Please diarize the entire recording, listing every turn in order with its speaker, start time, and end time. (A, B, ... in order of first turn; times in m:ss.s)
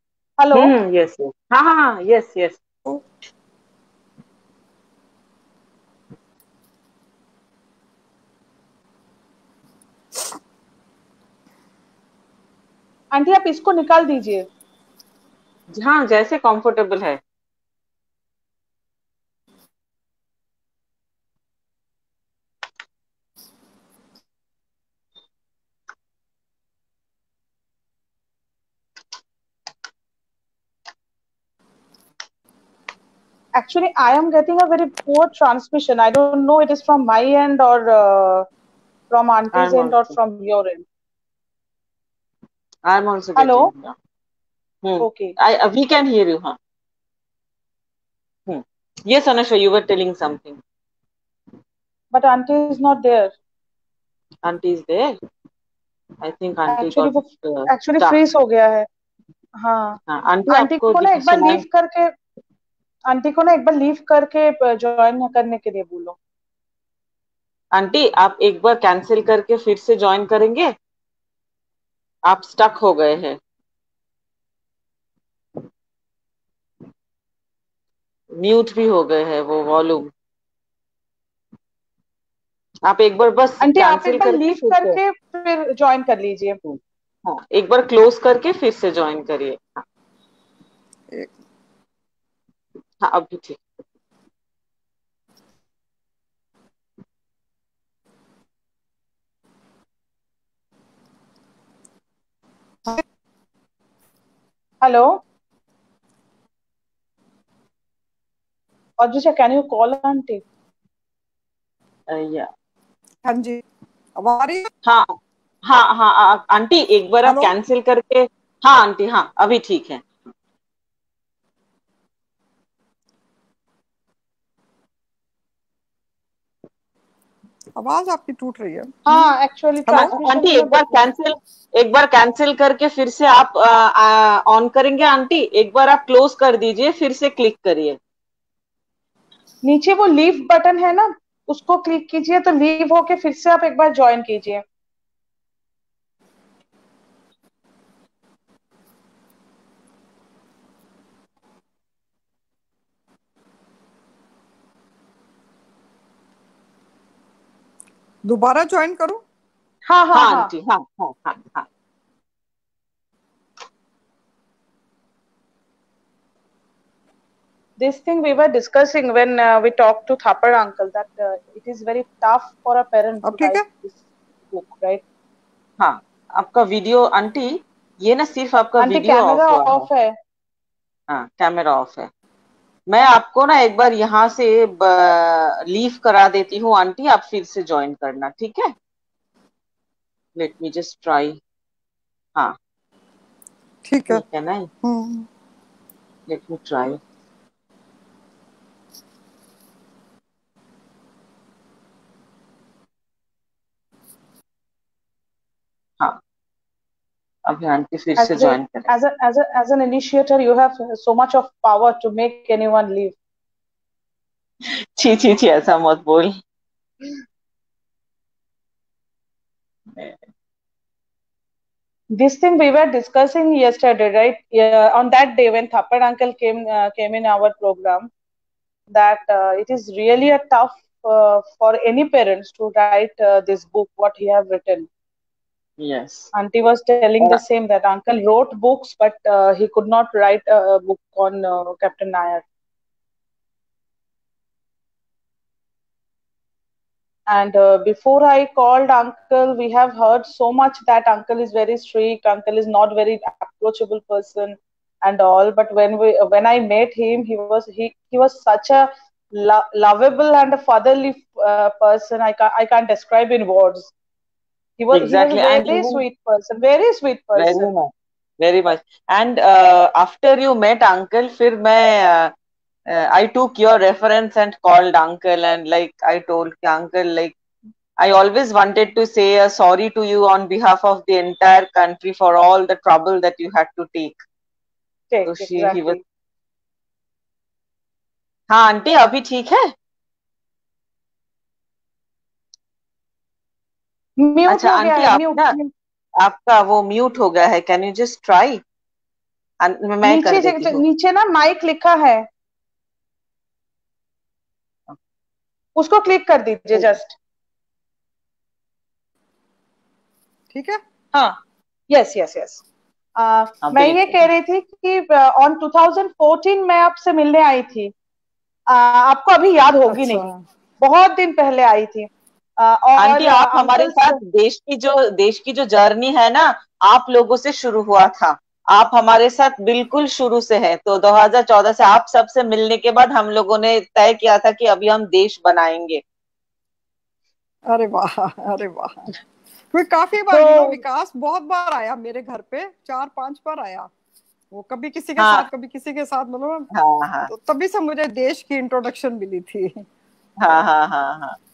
0:00.4-0:00.7 A
0:00.5-0:02.6 B
0:13.1-0:14.4 A
0:15.7-0:17.2 B
0:33.5-0:38.5 A
0:39.1-0:40.8 A
0:39.5-0:40.1 B
0:42.8-0:43.9 B
0:43.4-0:43.7 A
0:44.8-0:46.6 B
0:45.0-0:45.3 A
0:48.5-0:50.6 B
0:52.1-0:53.3 A
0:54.4-0:55.2 B
0:56.2-0:58.2 B
0:56.7-0:58.9 A
0:59.6-1:02.1 A
1:00.1-1:01.6 B
1:03.1-1:06.2 A
1:07.7-1:10.7 B
1:12.2-1:13.4 B
1:18.3-1:20.1 B
1:22.8-1:25.0 B
1:23.6-1:26.6 A
1:26.6-1:29.8 B
1:33.0-1:33.6 B
1:44.8-1:45.2 A
1:49.0-1:50.4 A
1:52.1-1:52.5 B
1:53.2-1:53.6 C
1:54.2-1:54.7 C
1:54.8-2:00.1 B
1:57.2-1:57.5 C
2:07.8-2:09.3 C
2:09.1-2:11.0 A
2:09.9-2:10.2 C
2:10.0-2:18.0 B
2:19.6-2:24.6 A
2:38.2-2:39.2 C
2:39.9-2:40.5 A
2:40.1-2:41.7 B
2:47.8-2:54.0 A
2:53.2-2:53.6 C
2:54.5-2:55.0 A
2:55.8-2:59.9 B
2:58.8-3:00.1 A
3:01.1-3:02.1 B
3:02.9-3:08.7 B
3:10.4-3:11.4 B
3:13.8-3:14.2 C
3:14.1-3:14.7 B
3:14.8-3:15.3 C
3:16.3-3:17.0 B
3:27.5-3:28.9 B
3:28.2-3:33.1 A
3:34.6-3:36.4 B
3:39.9-3:40.2 B
3:42.2-3:48.1 A
3:48.9-3:54.9 A
3:55.8-3:56.3 B
3:56.3-4:02.4 A
4:07.3-4:23.9 A
4:24.8-4:27.7 A
4:24.9-4:26.0 B
4:27.3-4:32.3 B
4:32.9-4:37.3 B
4:38.0-4:44.2 B
4:45.1-4:46.0 A
4:45.2-4:46.0 B
4:48.5-4:49.7 B
4:54.2-4:55.7 A
4:54.5-4:55.6 B
4:56.2-4:58.6 B
4:59.6-5:00.8 B
5:00.0-5:02.3 A
5:05.8-5:07.1 A
5:10.5-5:10.8 C
5:11.9-5:12.6 A
5:13.2-5:17.9 A
5:13.6-5:14.3 B
5:18.7-5:20.2 A
5:19.9-5:20.4 C
5:20.8-5:24.1 A
5:23.0-5:36.0 B
5:37.7-5:39.1 C
5:39.7-5:43.9 C
5:40.3-5:40.8 A
5:44.5-5:46.7 C
5:45.2-5:45.5 B
5:46.7-5:47.3 B
5:47.3-5:49.8 C
5:50.4-5:51.4 B